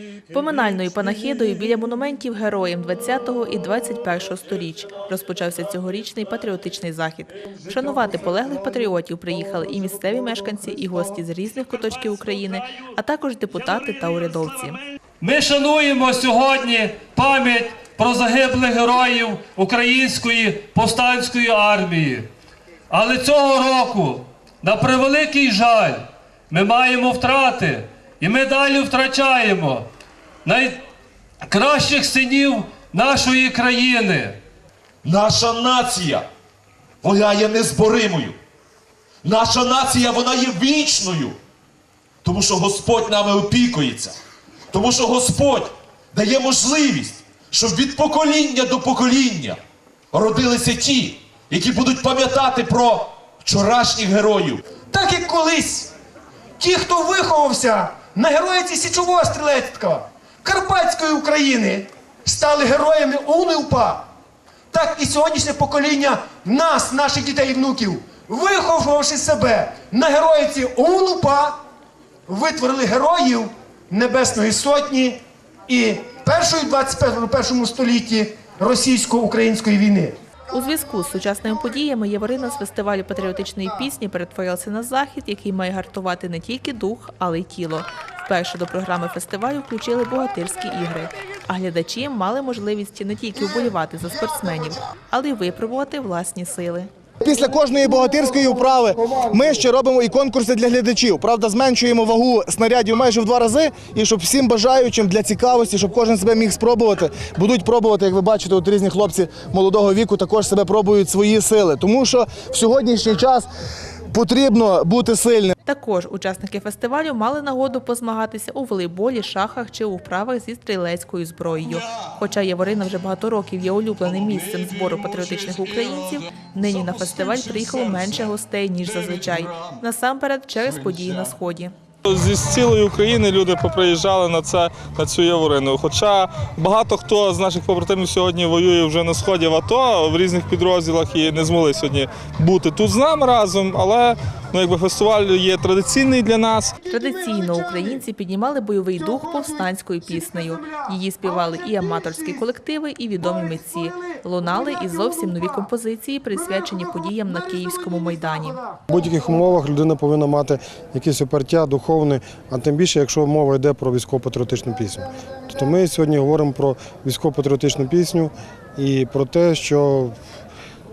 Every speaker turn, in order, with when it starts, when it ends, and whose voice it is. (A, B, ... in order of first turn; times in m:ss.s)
0:00.3-0:14.8 A
0:15.2-0:22.3 B
0:22.9-0:29.8 B
0:30.4-0:30.8 B
0:31.4-0:34.4 B
0:35.0-0:36.3 C
0:37.0-0:38.4 C
0:39.2-0:41.4 C
0:42.2-0:44.2 C
0:44.7-0:49.6 C
0:50.1-0:54.6 C
0:54.9-0:55.9 D
0:56.6-1:04.0 D
1:04.7-1:11.6 D
1:12.3-1:20.1 D
1:20.5-1:36.9 A
1:37.2-1:53.5 E
1:54.1-1:55.5 E
1:55.6-2:11.7 A
2:12.0-2:26.7 F
2:26.8-2:38.6 A
2:38.9-2:50.1 G